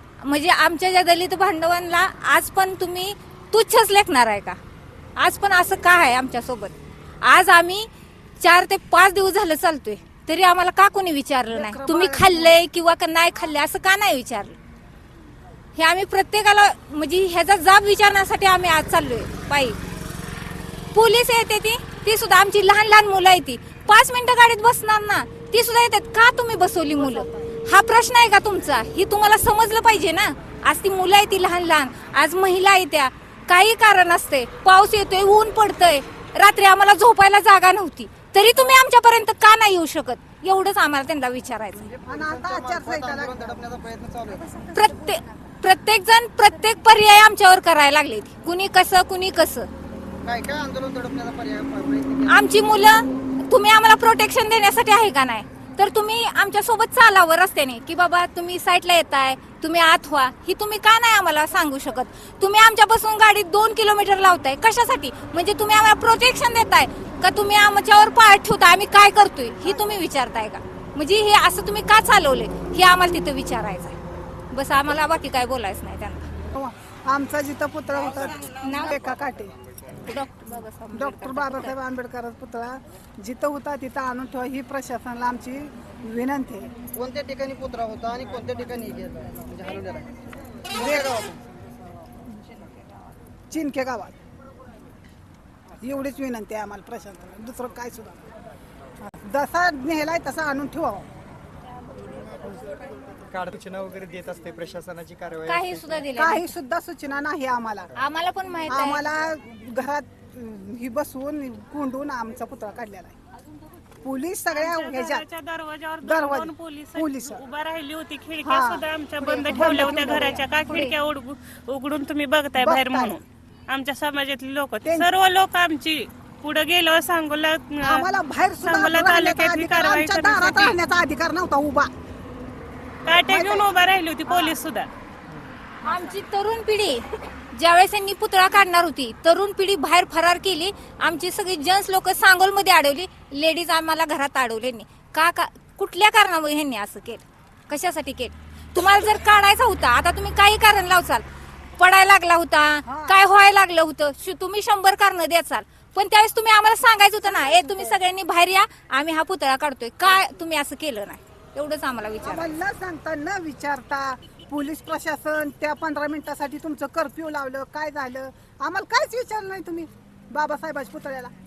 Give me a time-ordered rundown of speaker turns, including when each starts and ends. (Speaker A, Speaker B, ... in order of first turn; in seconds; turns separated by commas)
Speaker A: 0.2-4.6, Speaker A: 5.2-7.9, Speaker A: 8.4-14.6, Speaker B: 11.5-12.6, Speaker A: 15.8-19.8, Speaker A: 20.9-41.9, Speaker C: 41.8-44.7, Speaker B: 42.1-43.5, Speaker A: 44.7-49.7, Speaker C: 50.2-52.4, Speaker A: 52.3-74.0, Speaker A: 74.5-76.3, Speaker B: 76.5-79.5, Speaker A: 78.6-79.0, Speaker A: 80.0-81.8, Speaker B: 80.9-86.7, Speaker C: 86.9-90.1, Speaker C: 90.7-91.4, Speaker B: 90.7-91.1, Speaker B: 93.5-94.2, Speaker B: 95.8-98.3, Speaker B: 99.0-101.1, Speaker D: 103.3-106.0, Speaker A: 105.5-106.5, Speaker B: 106.2-107.9, Speaker A: 108.0-109.1, Speaker B: 108.7-113.2, Speaker B: 114.0-115.2, Speaker E: 114.5-128.0, Speaker B: 116.0-117.4, Speaker B: 118.4-120.9, Speaker B: 122.6-123.2, Speaker B: 127.8-131.9, Speaker E: 128.7-130.7, Speaker E: 133.1-134.9, Speaker B: 133.3-134.5, Speaker D: 135.3-135.6, Speaker A: 135.8-151.2, Speaker A: 151.8-162.5, Speaker B: 152.8-153.2, Speaker B: 157.4-157.9, Speaker B: 162.2-171.3